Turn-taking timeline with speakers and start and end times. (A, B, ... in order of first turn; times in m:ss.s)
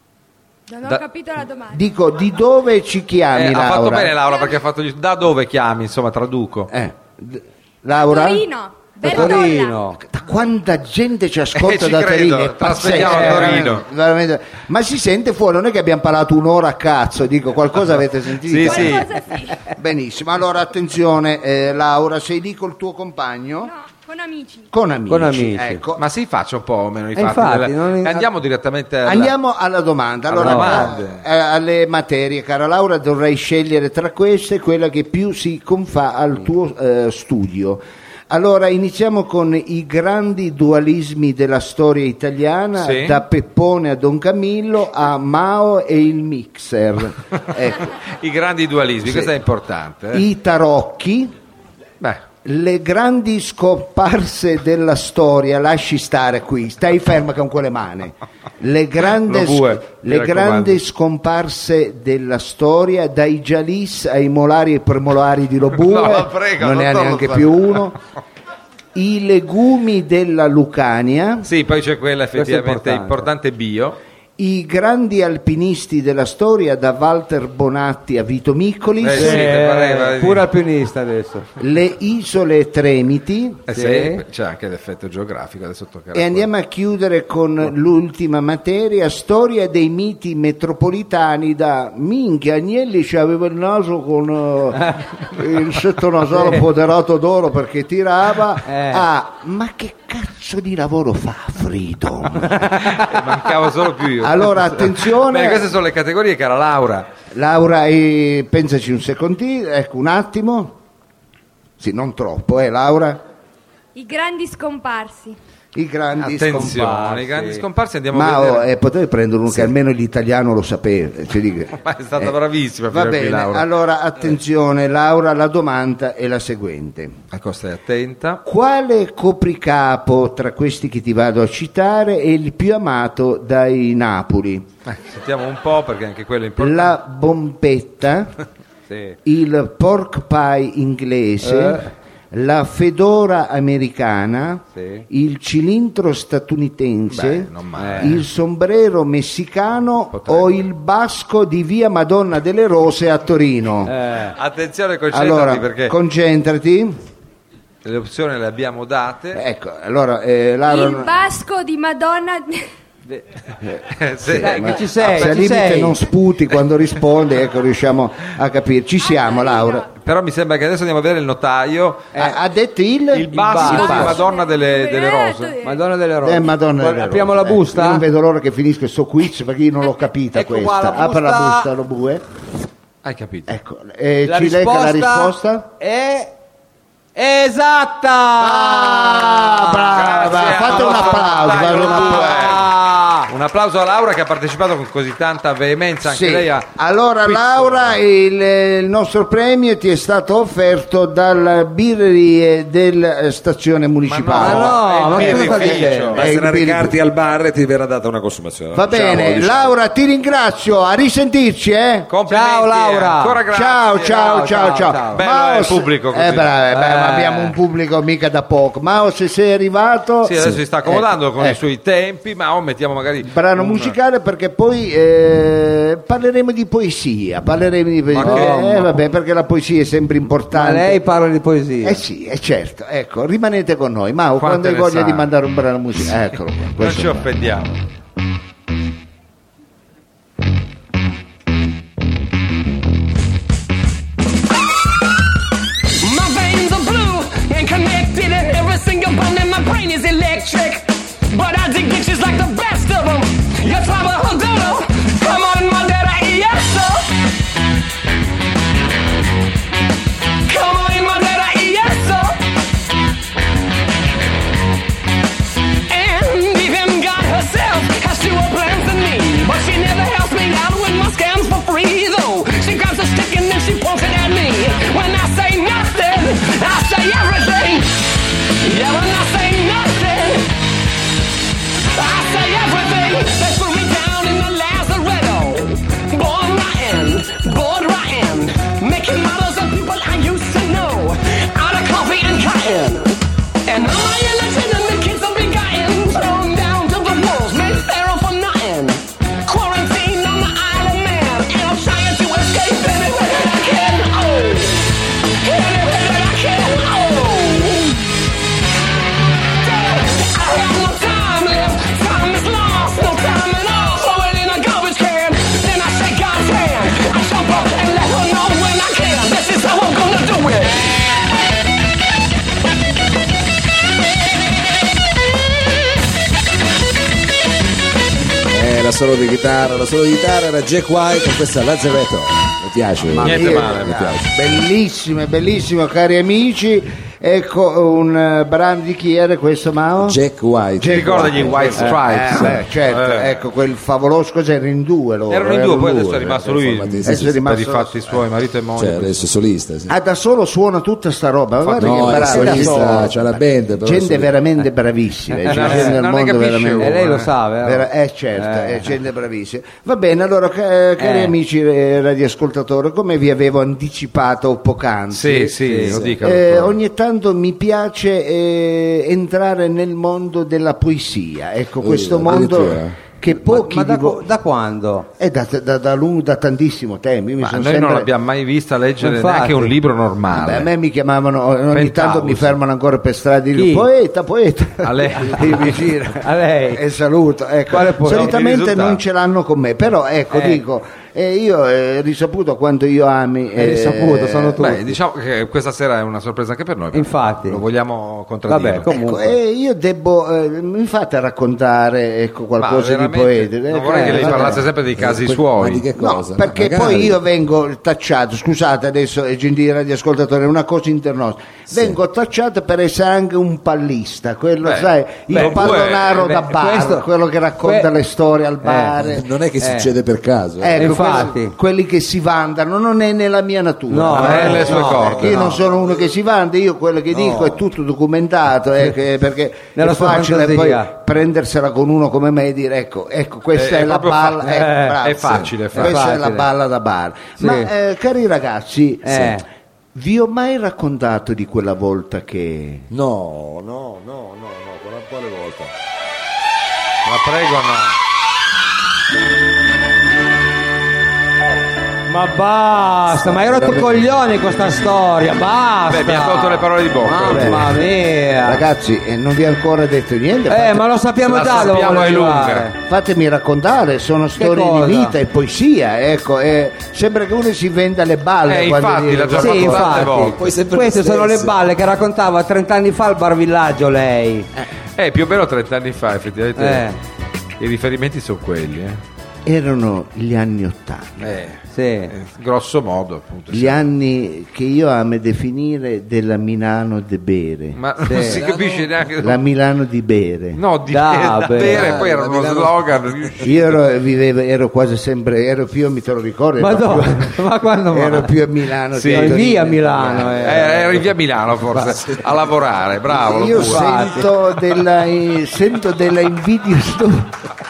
0:00.7-0:01.9 A
0:01.7-0:04.2 B
0:03.3-0:06.7 C
0:06.7-0:08.5 B
0:08.0-0:09.8 A
0:09.0-0:10.0 D
0:09.1-0:09.4 B
0:10.0-0:19.0 B
0:11.6-0:13.9 C
0:13.0-0:13.6 D
0:18.4-0:19.1 C
0:18.6-0:19.7 A
0:19.7-0:23.7 B
0:23.6-0:24.7 A
0:24.7-0:26.0 B
0:25.1-0:25.8 D
0:26.0-0:29.3 C
0:27.2-0:28.3 D
0:29.0-0:47.9 B
0:30.3-0:31.2 C
0:30.4-0:30.9 D
0:42.8-0:43.2 C
0:48.2-0:50.3 C
0:49.0-0:49.3 B
0:50.1-0:51.3 B
0:52.4-1:08.0 B
0:59.1-1:00.8 C
1:05.7-1:07.9 C
1:09.0-1:11.5 B
1:11.4-1:14.0 C
1:12.4-1:13.3 D
1:14.4-1:19.4 B
1:19.0-1:20.5 C
1:19.1-1:21.5 D
1:21.6-1:23.6 B
1:23.7-1:26.5 C
1:23.7-1:24.2 D
1:26.1-1:42.8 B
1:36.4-1:36.6 D
1:38.7-1:39.1 D
1:42.4-1:43.1 D
1:42.9-1:47.1 C
1:44.2-1:45.7 B
1:47.3-1:50.8 B
1:51.8-1:53.2 B
1:54.0-1:55.4 A
1:55.8-1:56.8 B
1:56.2-1:58.7 C
1:56.6-1:57.6 D
1:58.1-2:02.4 B
2:01.8-2:03.7 C
2:02.9-2:07.2 B
2:07.3-2:08.4 C
2:08.4-2:14.7 B
2:14.9-2:17.0 C
2:16.6-2:18.4 B
2:18.9-2:19.2 D
2:19.2-2:33.9 B
2:21.4-2:21.9 D
2:24.8-2:25.1 D
2:27.1-2:28.2 C
2:27.8-2:28.2 D
2:30.1-2:30.6 C
2:33.9-2:34.4 D
2:34.4-2:35.9 C
2:35.1-2:37.0 B
2:37.8-2:39.4 C
2:39.4-2:41.1 B
2:40.6-2:42.7 A
2:43.6-2:49.8 B
2:43.9-2:45.6 C
2:44.4-2:46.0 D
2:49.0-2:49.9 A
2:49.9-2:52.1 C
2:52.1-2:52.4 D
2:52.2-2:54.2 B
2:53.1-2:55.6 C
2:53.3-2:54.1 D
2:53.6-2:55.8 A
2:55.6-2:58.0 D
2:56.2-3:02.2 B
3:00.3-3:01.7 D
3:03.0-3:03.5 C
3:03.5-3:05.7 B
3:04.2-3:06.3 D
3:07.2-3:13.3 D
3:08.4-3:12.6 B
3:09.9-3:12.7 C
3:13.3-3:16.7 C
3:16.0-3:27.0 B
3:17.2-3:18.0 C
3:24.0-3:26.3 C
3:24.4-3:26.2 D
3:26.1-3:29.8 E
3:28.7-3:32.1 B
3:32.1-3:34.5 C
3:32.3-3:33.4 D
3:33.5-3:41.6 B
3:34.1-3:35.2 D
3:35.1-3:36.5 C
3:36.7-3:37.6 D
3:40.2-3:44.0 C
3:40.4-3:40.6 E
3:43.3-3:51.0 B
3:48.1-3:48.9 D
3:48.1-3:48.6 C
3:50.5-3:52.0 D
3:51.8-3:57.4 B
3:54.4-3:55.3 C
3:56.8-3:57.8 C
4:06.0-4:17.1 F
4:20.5-4:22.4 F
4:25.9-4:38.0 F
4:38.6-4:40.6 F
4:41.9-5:08.1 F
5:09.6-5:21.0 F
5:28.5-5:34.3 E
5:33.2-5:34.2 C
5:33.2-5:40.2 B
5:40.0-5:41.9 E
5:40.8-5:46.5 B
5:40.9-5:43.4 C
5:41.8-5:42.6 D
5:45.3-5:49.2 C
5:46.4-5:47.4 E
5:47.0-5:48.2 B
5:48.8-5:49.9 E
5:49.9-5:57.0 B
5:51.6-5:52.9 C
5:51.8-5:54.3 E
5:52.3-5:52.7 D
5:55.3-5:56.0 D
5:55.5-5:57.3 C
5:56.8-5:58.9 D
5:57.6-6:14.2 B
6:01.0-6:01.3 D
6:05.1-6:06.8 C
6:05.6-6:06.0 D
6:05.9-6:06.2 E
6:11.8-6:13.0 E
6:13.3-6:15.1 D
6:15.2-6:18.1 B
6:17.4-6:20.7 C
6:19.0-6:19.7 D
6:20.3-6:34.8 B
6:21.7-6:22.6 C
6:23.5-6:23.9 D
6:24.8-6:26.0 C
6:26.2-6:26.8 D
6:27.7-6:28.3 D
6:28.0-6:29.0 C
6:30.3-6:30.6 D
6:33.6-6:34.9 D
6:34.6-6:38.9 C
6:36.9-6:37.6 D
6:38.5-6:39.4 D
6:38.9-6:44.7 B
6:42.6-6:45.8 C
6:43.9-6:44.6 D
6:45.0-6:47.2 E
6:46.0-6:59.2 B
6:51.7-6:52.0 E
6:54.6-6:56.3 C
6:55.3-6:57.1 D
6:57.6-6:57.9 D
6:58.6-6:59.0 D
6:59.0-7:01.3 E
6:59.6-6:59.9 D
7:00.6-7:19.4 B
7:00.7-7:01.6 D
7:03.9-7:05.6 D
7:04.2-7:05.5 C
7:07.1-7:07.7 E
7:09.8-7:10.9 D
7:13.5-7:16.0 C
7:14.5-7:15.0 D
7:15.2-7:15.5 E
7:15.8-7:16.5 D
7:17.4-7:17.7 D
7:19.0-7:19.4 D
7:20.0-7:22.9 B
7:22.9-7:25.7 E
7:27.0-7:28.0 C
7:32.1-7:38.6 D
7:33.3-7:34.0 E
7:35.9-7:37.7 C
7:37.3-7:37.8 B
7:38.4-7:40.8 B
7:40.5-7:42.7 D
7:41.3-7:42.7 C
7:42.8-7:50.0 B
7:44.4-7:45.2 D
7:48.5-7:50.5 C
7:49.4-7:54.5 D
7:50.0-7:51.6 E
7:55.0-7:56.9 C
7:56.6-7:57.0 D
7:57.6-7:59.0 C
7:59.4-8:01.5 B
8:01.2-8:03.8 C
8:01.7-8:02.1 D
8:03.5-8:07.8 B
8:07.8-8:09.4 C
8:08.0-8:08.4 D
8:08.2-8:09.1 E
8:09.2-8:10.6 B
8:10.6-8:13.8 C
8:10.9-8:11.9 D
8:11.6-8:13.5 E
8:13.4-8:21.0 B
8:16.6-8:18.3 D
8:18.9-8:19.5 C
8:19.1-8:20.7 D
8:20.4-8:24.0 C
8:23.1-8:27.5 B
8:23.5-8:24.3 D